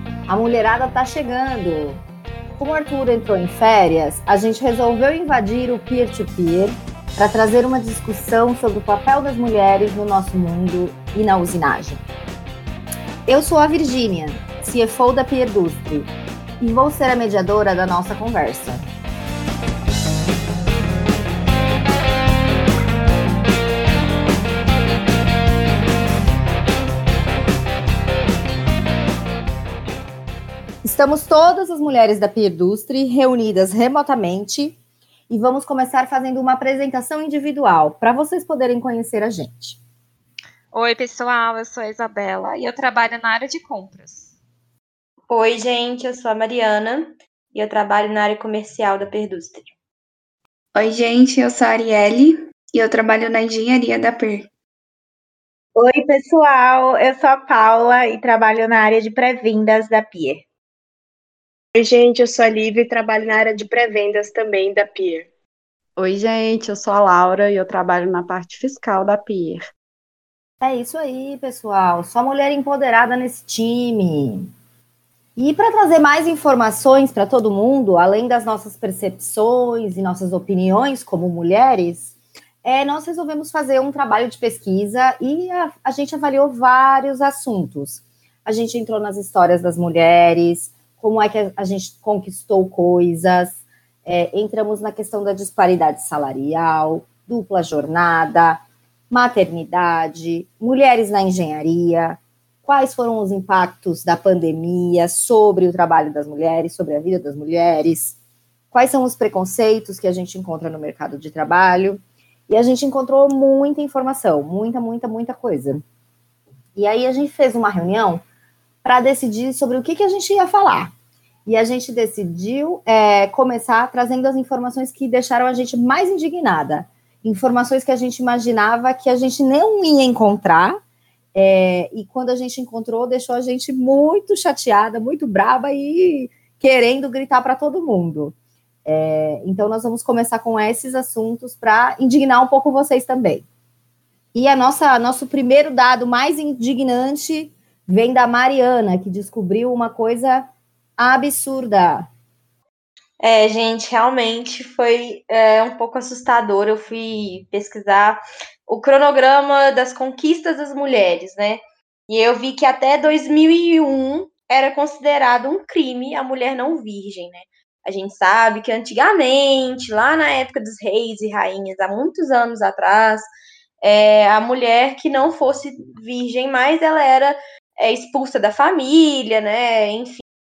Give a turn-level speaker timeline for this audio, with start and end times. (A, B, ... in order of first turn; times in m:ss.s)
0:00.3-0:02.0 A
0:02.6-0:12.0 A
0:13.2-0:18.9 A
0:30.8-0:34.8 A
0:35.3-0:39.8 A
0:40.7-0:44.3 B
0:45.3-0:49.7 C
0:50.7-0:54.5 D
0:55.8-1:00.4 E
1:01.7-1:05.3 F
1:06.0-1:09.6 G
1:10.6-1:14.5 A
1:15.4-1:22.1 A
1:22.6-1:48.2 A
1:48.7-1:55.8 A
1:56.7-1:58.2 A
1:58.8-2:00.9 A
2:01.4-2:10.8 A
2:11.3-2:23.5 A
2:24.3-2:32.1 A
2:33.2-2:53.3 C
2:53.8-3:00.2 C